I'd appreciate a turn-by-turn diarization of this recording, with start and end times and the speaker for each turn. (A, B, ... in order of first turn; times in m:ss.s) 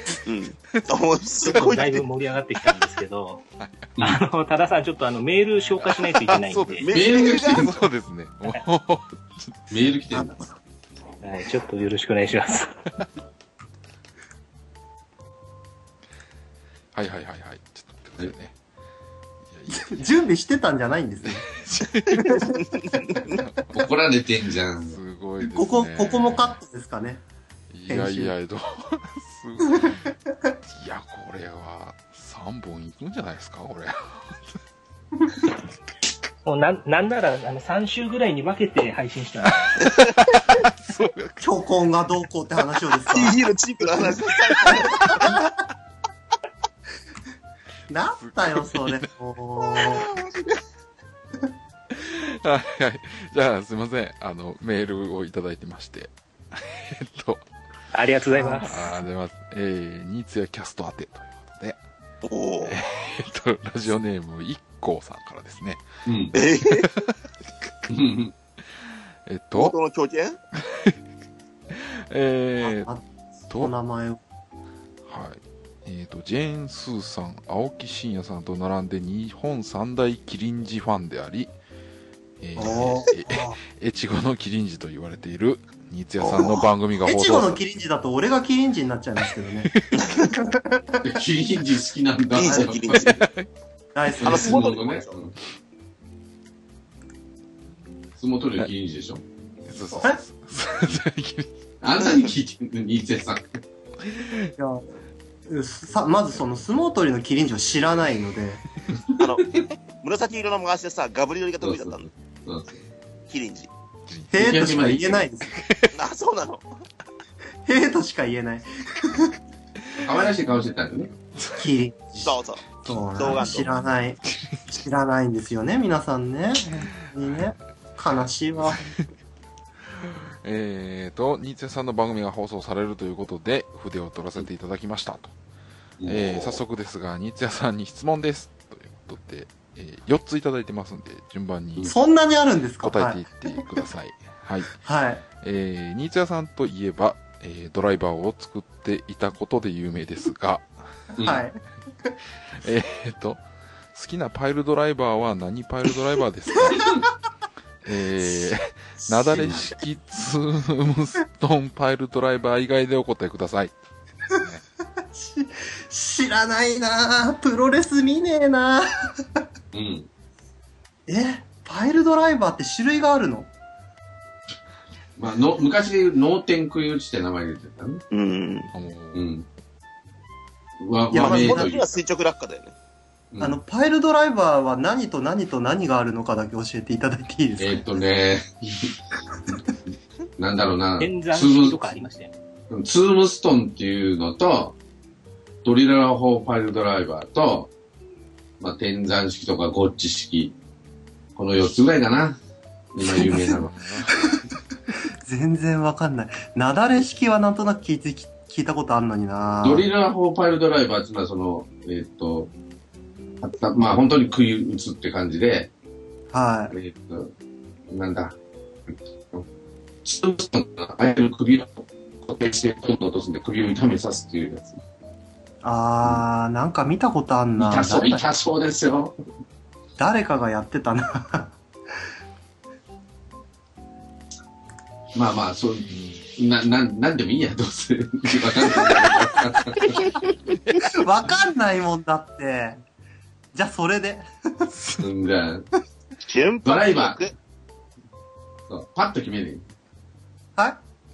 0:00.2-0:02.0 A
0:01.4-0:03.4 B
0:03.6-0:04.0 C
0:04.0-0:06.9 B
0:05.8-0:09.5 C
0:06.8-0:07.7 A
0:06.9-0:07.8 D
0:09.7-0:10.4 D
0:11.2-0:12.7 B
0:16.9-0:18.5 C
0:19.5-0:20.0 C
0:19.7-0:21.5 E
0:21.2-0:22.6 C
0:22.1-0:23.4 E
0:22.7-0:23.4 A
0:23.2-0:23.8 C
0:23.7-0:25.0 D
0:24.9-0:26.6 C
0:25.4-0:27.2 E
0:27.7-0:30.1 C
0:27.9-0:28.3 E
0:29.7-0:30.0 E
0:30.7-0:34.5 C
0:36.4-0:39.9 B
0:39.8-0:41.5 C
0:41.4-0:43.4 E
0:43.1-0:45.2 A
0:44.7-0:45.5 E
0:47.9-0:50.1 E
0:48.2-0:49.0 C
0:51.9-0:57.4 C
0:57.9-0:59.0 B
0:58.4-1:01.8 C
1:02.2-1:02.8 A
1:02.6-1:05.8 C
1:06.0-1:06.4 D
1:06.3-1:06.9 A
1:06.6-1:07.1 C
1:07.9-1:08.3 D
1:09.2-1:09.8 C
1:09.5-1:10.4 A
1:10.6-1:11.0 C
1:11.7-1:12.9 C
1:12.6-1:14.2 E
1:13.5-1:13.7 C
1:15.0-1:21.5 C
1:22.4-1:27.6 C
1:22.6-1:23.6 E
1:26.2-1:26.6 A
1:27.0-1:29.7 E
1:29.9-1:30.3 A
1:30.3-1:31.1 E
1:31.0-1:33.2 D
1:32.3-1:33.2 A
1:32.9-1:33.5 C
1:33.9-1:34.6 E
1:34.2-1:35.3 D
1:34.2-1:35.2 A
1:38.2-1:39.2 D
1:39.6-1:41.5 C
1:41.8-1:43.6 D
1:44.0-1:44.5 C
1:44.6-1:44.8 E
1:45.5-1:48.6 E
1:49.2-1:52.1 A
1:51.6-1:52.8 D
1:53.3-1:53.7 A
1:54.1-1:54.7 C
1:54.3-1:55.5 E
1:54.3-1:55.3 D
1:55.5-1:55.9 C
1:55.9-1:56.6 A
1:57.6-1:59.3 E
2:00.0-2:01.1 D
2:01.3-2:01.7 C
2:01.6-2:02.2 E
2:02.2-2:02.6 A
2:02.8-2:04.6 C
2:02.8-2:08.9 E
2:03.2-2:03.6 A
2:10.1-2:15.3 C
2:16.0-2:16.6 D
2:16.0-2:21.9 C
2:21.8-2:23.6 E
2:22.8-2:24.7 C
2:24.8-2:25.2 E
2:25.4-2:30.7 C
2:31.2-2:31.4 D
2:31.2-2:32.1 E
2:32.5-2:36.9 C
2:37.8-2:43.7 C
2:39.3-2:39.6 D
2:44.3-2:44.6 C
2:45.1-2:49.4 E
2:49.7-2:50.1 D
2:51.1-2:53.5 E
2:55.2-2:58.0 D
2:58.1-2:58.7 A
2:58.7-2:59.2 C
2:59.1-2:59.4 D
3:00.8-3:01.9 D
3:01.1-3:01.7 E
3:01.1-3:02.7 A
3:03.3-3:03.6 D
3:03.4-3:07.9 E
3:07.6-3:08.9 D
3:10.4-3:11.8 D
3:11.0-3:12.3 B
3:12.7-3:14.8 D
3:15.6-3:17.7 D
3:18.6-3:20.5 D
3:21.4-3:22.4 D
3:22.9-3:23.7 D
3:23.1-3:23.6 E
3:23.5-3:24.2 C
3:25.2-3:29.9 E
3:29.6-3:32.5 D
3:33.4-3:35.7 D
3:36.3-3:36.7 E
3:36.7-3:37.3 D
3:37.9-3:38.4 D
3:40.0-3:44.8 D
3:45.6-3:48.2 E
3:47.6-3:49.1 D
3:50.0-3:51.5 E
3:55.1-4:00.1 D
3:55.9-3:56.3 C
3:58.8-3:59.1 E
3:59.8-4:00.1 E
4:00.8-4:02.8 E
4:03.5-4:04.7 E
4:05.0-4:05.7 D
4:06.2-4:07.3 A
4:06.6-4:07.3 D
4:08.7-4:09.6 D